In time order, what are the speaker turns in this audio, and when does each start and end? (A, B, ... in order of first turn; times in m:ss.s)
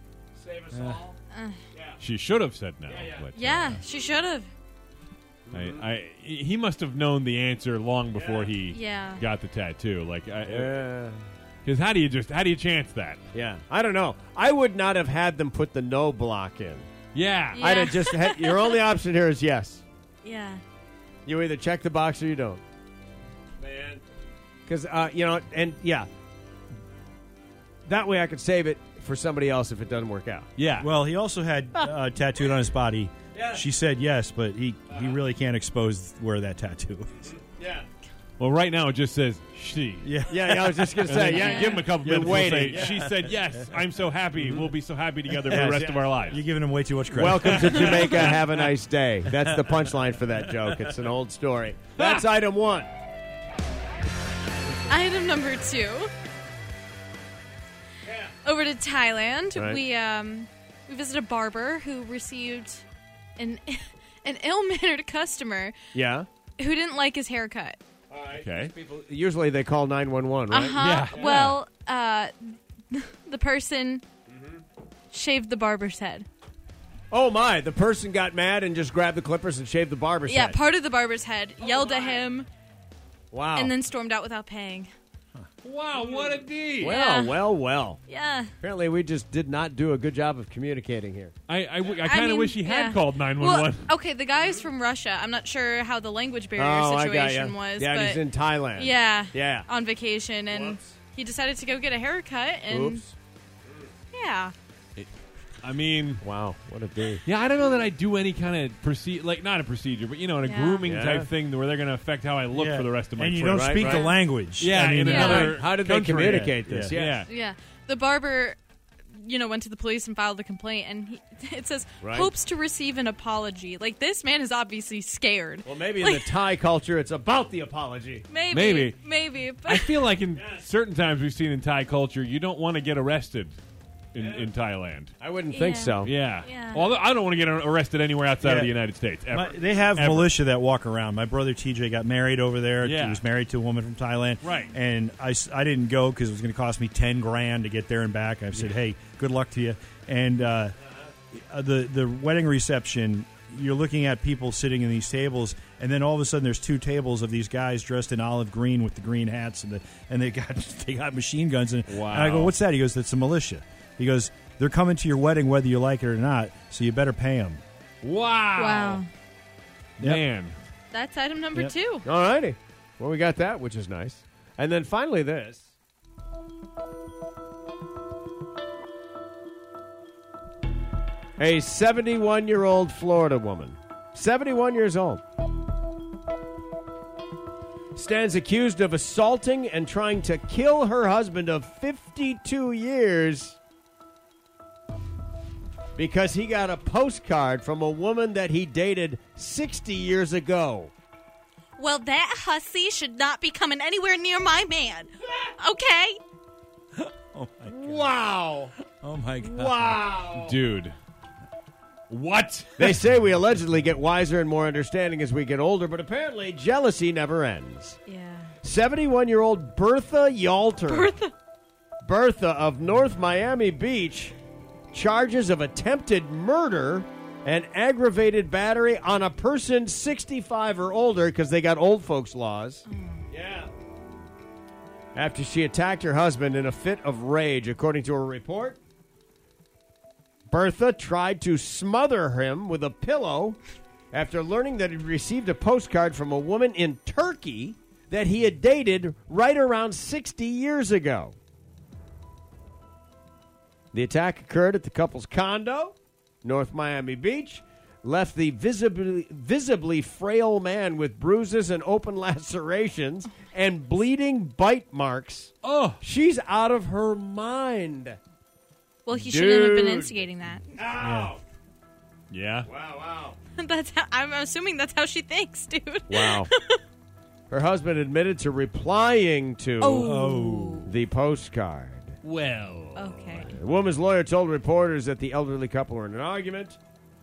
0:00.4-0:01.2 A
0:00.7-0:01.0 B
0:01.3-0:01.6 C
0:01.7-0:02.0 A
0:02.0-0:03.8 D
0:02.9-0:03.3 A
0:03.4-0:04.5 C
0:05.5-0:05.8 A
0:05.5-0:10.7 D
0:08.1-0:08.5 A
0:08.7-0:09.2 C
0:10.4-0:11.2 A
0:11.6-0:13.2 D
0:13.3-0:16.9 A
0:17.1-0:17.6 D
0:17.5-0:18.8 C
0:17.6-0:19.8 A
0:20.2-0:20.6 C
0:21.2-0:22.6 A
0:23.6-0:24.0 A
0:24.6-0:26.1 A
0:27.9-0:30.5 A
0:30.6-0:30.9 D
0:30.8-0:37.1 B
0:33.3-0:33.6 A
0:34.9-0:35.2 A
0:37.3-0:37.9 A
0:38.4-0:40.1 D
0:40.0-0:43.2 B
0:40.3-0:43.0 A
0:41.1-0:46.3 D
0:41.4-0:41.8 C
0:45.4-0:48.3 B
0:45.5-0:46.2 A
0:47.1-0:52.9 A
0:47.5-0:48.3 D
0:54.9-0:56.1 C
0:58.0-0:58.3 A
0:58.4-1:02.8 C
0:59.6-0:59.8 A
1:03.4-1:05.7 C
1:05.9-1:06.3 A
1:06.6-1:07.8 C
1:08.1-1:11.5 A
1:08.4-1:08.7 D
1:10.5-1:14.0 C
1:10.8-1:11.6 D
1:14.3-1:14.6 A
1:15.1-1:16.2 C
1:17.1-1:20.6 A
1:20.3-1:22.5 C
1:21.8-1:22.2 A
1:23.3-1:23.7 A
1:23.5-1:24.9 C
1:25.6-1:26.9 D
1:26.8-1:28.0 A
1:26.9-1:27.4 C
1:28.1-1:28.5 C
1:28.6-1:31.3 A
1:31.5-1:33.9 D
1:32.0-1:43.0 C
1:36.6-1:39.7 A
1:40.5-1:40.8 A
1:42.7-1:43.1 A
1:44.1-1:44.5 C
1:45.6-1:46.2 D
1:46.2-1:47.2 A
1:47.2-1:53.6 D
1:50.4-1:50.9 C
1:50.8-1:51.3 A
1:52.5-1:55.6 B
1:53.5-1:54.1 A
1:53.8-1:54.2 C
1:54.6-1:57.3 D
1:55.0-1:55.5 C
1:55.2-1:57.3 A
1:56.2-1:56.9 B
1:57.3-1:58.6 C
1:59.1-2:06.4 C
2:02.0-2:02.3 A
2:05.6-2:08.2 A
2:08.3-2:10.2 C
2:08.5-2:09.0 D
2:09.7-2:13.6 D
2:14.1-2:15.1 D
2:14.1-2:14.5 A
2:15.2-2:16.1 A
2:15.5-2:16.9 C
2:16.0-2:20.3 D
2:18.4-2:18.7 B
2:19.3-2:30.7 B
2:22.8-2:23.2 D
2:24.4-2:24.7 D
2:31.3-2:47.6 B
2:41.9-2:42.5 D
2:48.0-2:49.0 D
2:48.6-2:49.1 C
2:50.0-2:50.6 D
2:50.9-2:52.0 C
2:52.0-2:55.7 A
3:01.4-3:05.2 A
3:07.9-3:13.6 A
3:15.9-3:20.9 A
3:21.8-3:26.2 C
3:27.0-3:28.1 B
3:27.7-3:28.7 A
3:29.0-3:30.0 B
3:29.4-3:30.6 A
3:30.4-3:30.9 D
3:32.1-3:32.9 D
3:32.8-3:38.0 A
3:38.1-3:38.5 C
3:38.6-3:41.2 A
3:40.9-3:41.3 C
3:42.0-3:44.3 A
3:44.9-3:53.7 A
3:52.9-3:53.2 C
3:55.1-3:58.8 A
4:00.5-4:03.6 A
4:04.1-4:11.4 A
4:13.9-4:28.2 A
4:25.6-4:26.0 D
4:29.0-4:30.7 C
4:29.1-4:30.2 A
4:30.7-4:31.4 A
4:30.9-4:31.4 B
4:32.3-4:32.6 D
4:32.6-4:33.4 A
4:33.6-4:36.8 C
4:36.1-4:36.5 A
4:37.5-4:40.1 A
4:39.8-4:40.9 C
4:40.0-4:40.9 B
4:40.8-4:42.2 A
4:42.2-4:43.3 D
4:43.0-4:43.5 C
4:43.4-4:46.8 A